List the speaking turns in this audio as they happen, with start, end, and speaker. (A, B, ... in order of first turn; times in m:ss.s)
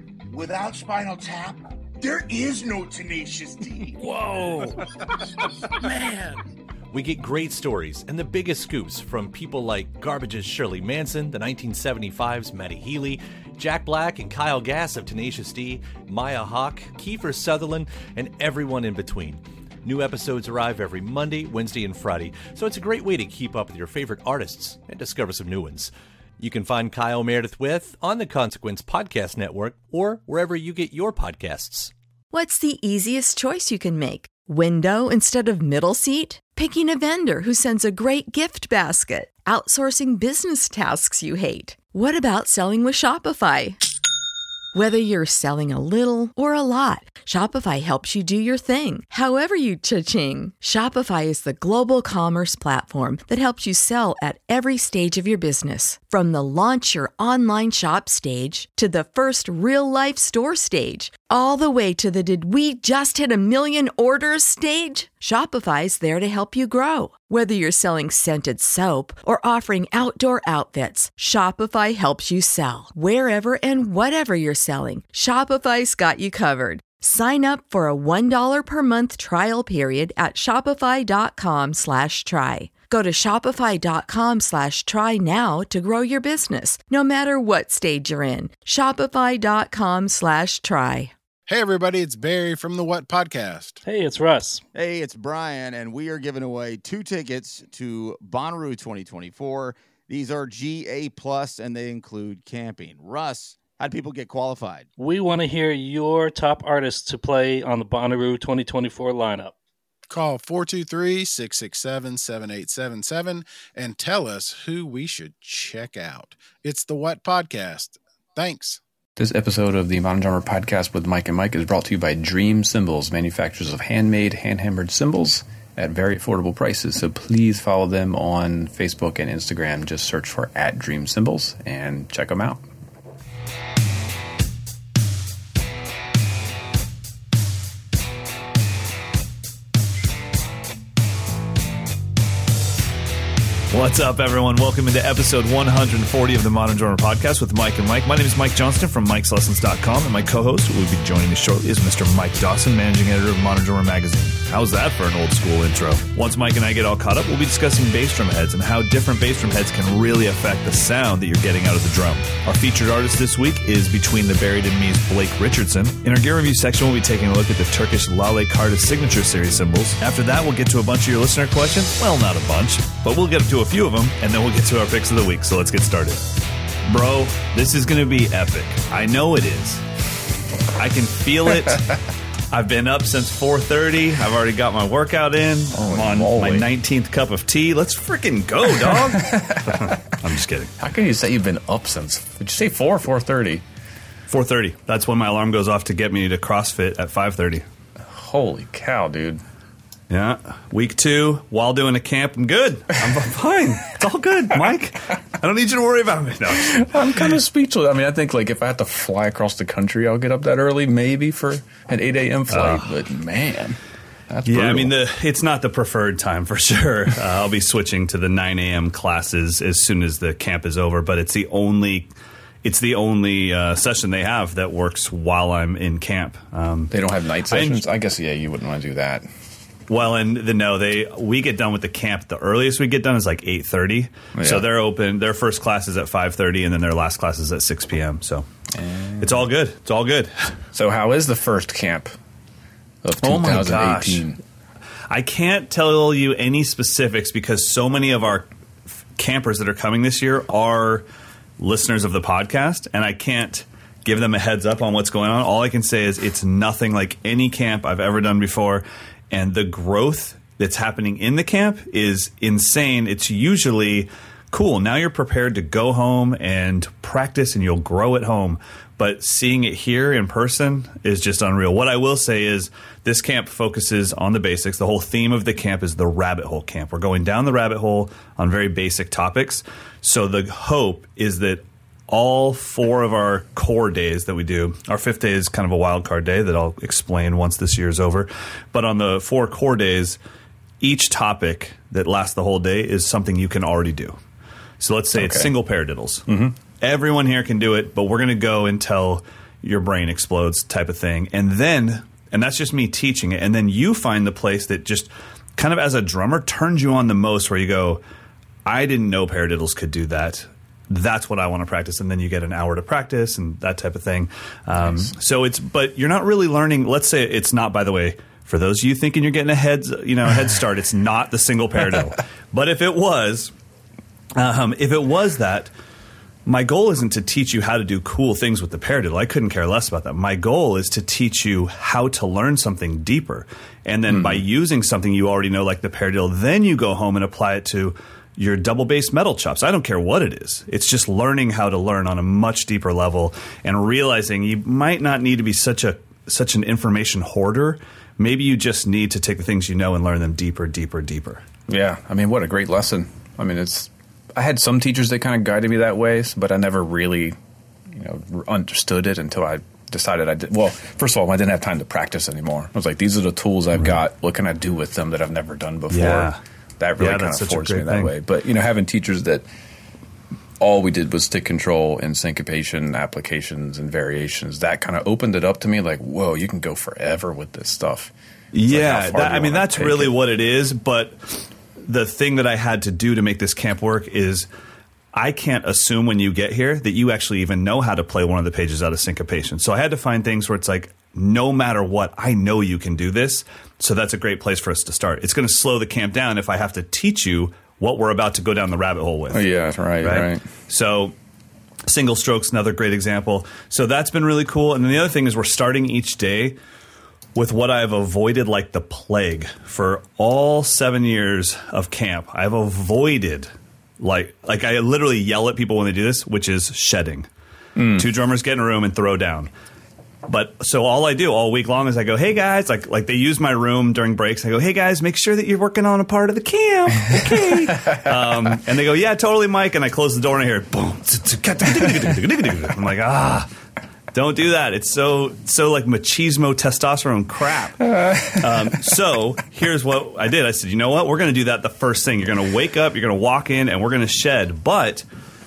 0:00.3-0:04.7 A
0:05.4-0:06.4 A
0:06.9-0:31.9 B
0:32.3-0:43.8 C
0:44.7-1:31.1 C
1:31.5-1:33.8 D
1:33.8-1:34.6 E
1:34.8-1:44.9 F
1:45.0-1:49.5 E
1:50.1-1:58.8 D
1:59.2-2:12.6 G
2:23.7-2:56.2 H
2:56.9-2:59.8 H
3:00.8-3:01.8 H
3:02.5-3:10.7 H
3:05.7-3:06.7 G
3:08.8-3:10.0 G
3:10.8-3:13.6 G
3:14.3-3:17.6 H
3:18.1-3:19.4 G
3:20.1-3:27.0 H
3:26.6-3:35.0 G
3:32.5-3:32.8 H
3:34.4-3:42.1 H
3:42.6-3:47.0 H
3:46.9-3:49.3 G
3:47.5-3:47.8 H
3:49.9-3:58.5 H
3:54.4-3:54.7 G
3:58.7-3:59.4 G
3:59.2-4:00.5 H
4:00.7-4:02.1 G
4:03.0-4:04.4 G
4:03.2-4:04.3 H
4:05.1-4:08.5 H
4:09.2-4:11.0 H
4:11.6-4:50.2 H
4:50.8-4:54.2 H
4:54.8-4:56.3 H
4:55.1-4:55.5 G
4:56.3-4:56.6 G
4:56.8-5:08.0 H
5:08.7-5:23.5 H
5:14.8-5:15.1 G
5:24.4-5:25.7 H
5:26.5-5:51.4 H
5:34.1-5:34.4 G
5:51.7-5:57.4 G
5:57.9-6:09.4 G
6:05.9-6:06.4 H
6:07.0-6:08.1 H
6:10.6-6:18.1 G
6:18.5-6:24.5 H
6:18.6-6:20.2 G
6:25.1-6:39.5 H
6:39.3-6:40.4 G
6:40.0-6:41.1 H
6:41.9-6:46.6 H
6:47.4-6:57.3 H
6:57.8-6:58.1 G
6:58.0-6:59.5 H
7:00.3-7:13.5 H
7:07.1-7:08.1 G
7:14.1-7:25.0 H
7:18.0-7:18.5 G